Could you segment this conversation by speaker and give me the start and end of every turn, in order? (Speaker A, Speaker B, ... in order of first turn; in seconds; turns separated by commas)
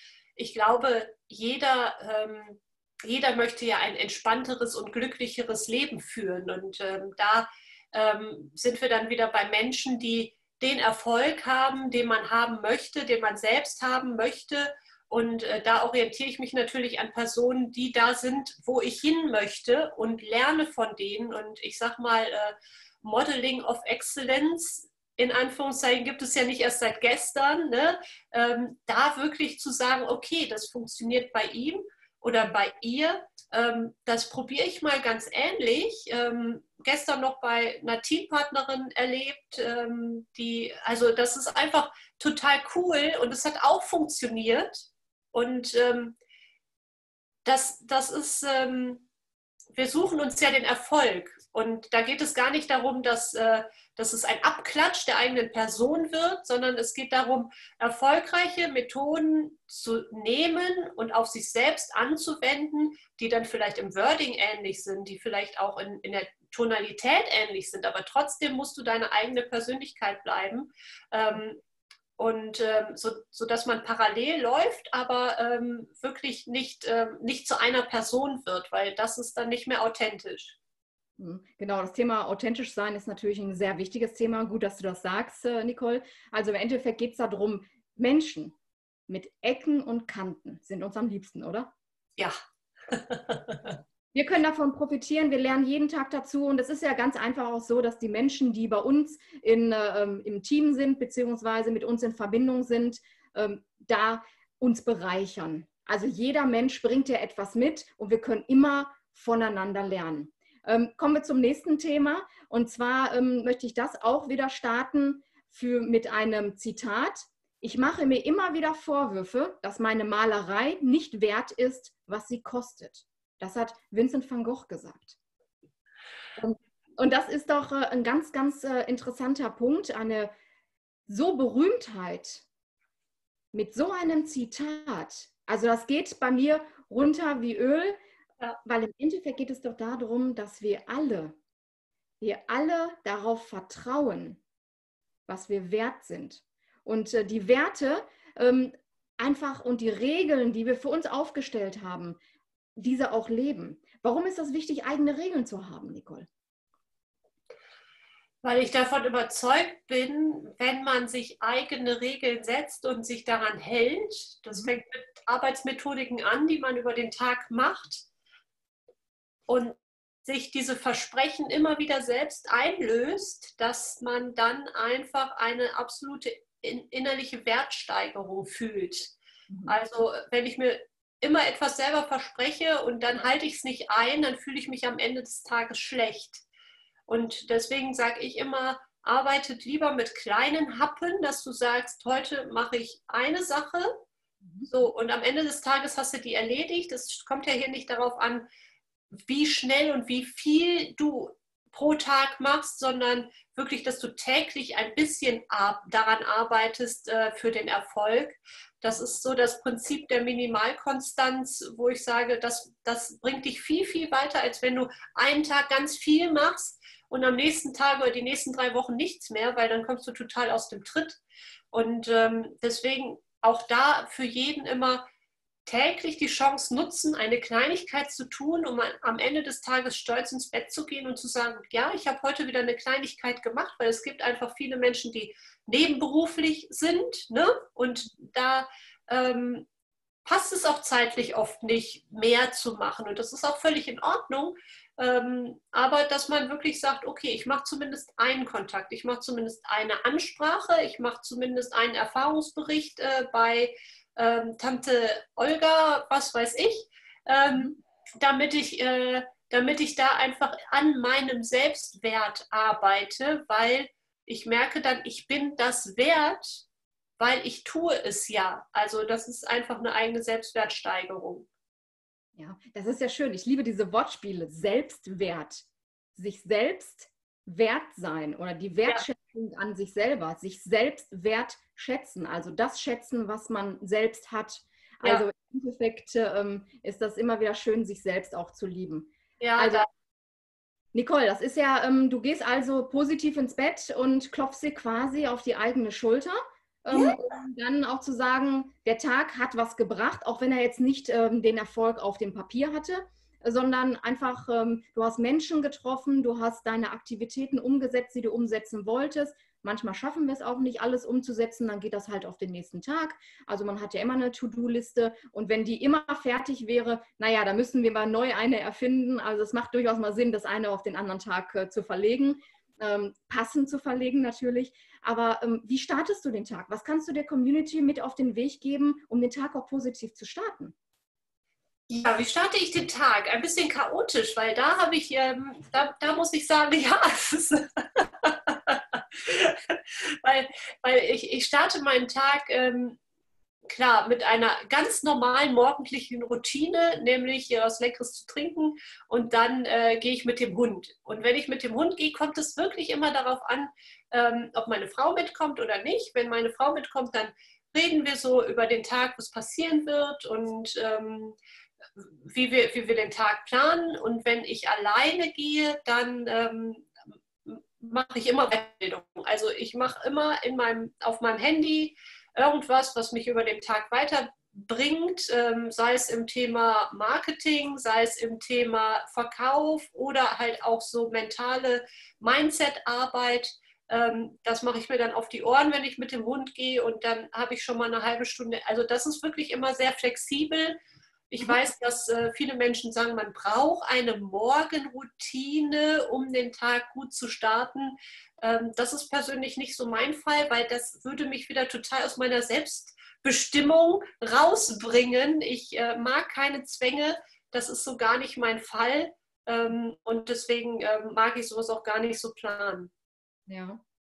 Speaker A: 0.3-46.1, Speaker A: 47.4-49.0, Speaker A: 49.7-71.6, Speaker A: 72.2-80.6, Speaker B: 81.2-88.5, Speaker B: 89.1-91.7, Speaker A: 92.9-93.8, Speaker B: 94.1-125.2, Speaker B: 126.4-130.3, Speaker B: 131.1-132.4, Speaker B: 133.5-138.0, Speaker B: 138.6-141.3, Speaker B: 142.2-144.4, Speaker B: 145.3-152.2, Speaker B: 152.8-156.3, Speaker A: 158.4-168.1, Speaker A: 169.5-179.1, Speaker B: 179.5-179.8, Speaker A: 179.7-186.4, Speaker A: 187.1-194.0, Speaker B: 194.4-194.7, Speaker A: 194.7-198.5, Speaker A: 199.1-221.2, Speaker A: 221.7-225.1, Speaker A: 225.7-239.7, Speaker A: 240.2-266.6, Speaker B: 257.5-257.8, Speaker A: 267.2-271.5, Speaker B: 272.4-289.9, Speaker A: 289.4-289.9, Speaker B: 290.9-330.7, Speaker A: 296.9-297.2, Speaker A: 331.9-343.0, Speaker A: 343.7-361.4, Speaker A: 361.9-366.9, Speaker A: 367.4-390.8, Speaker A: 391.3-412.9, Speaker B: 413.5-413.8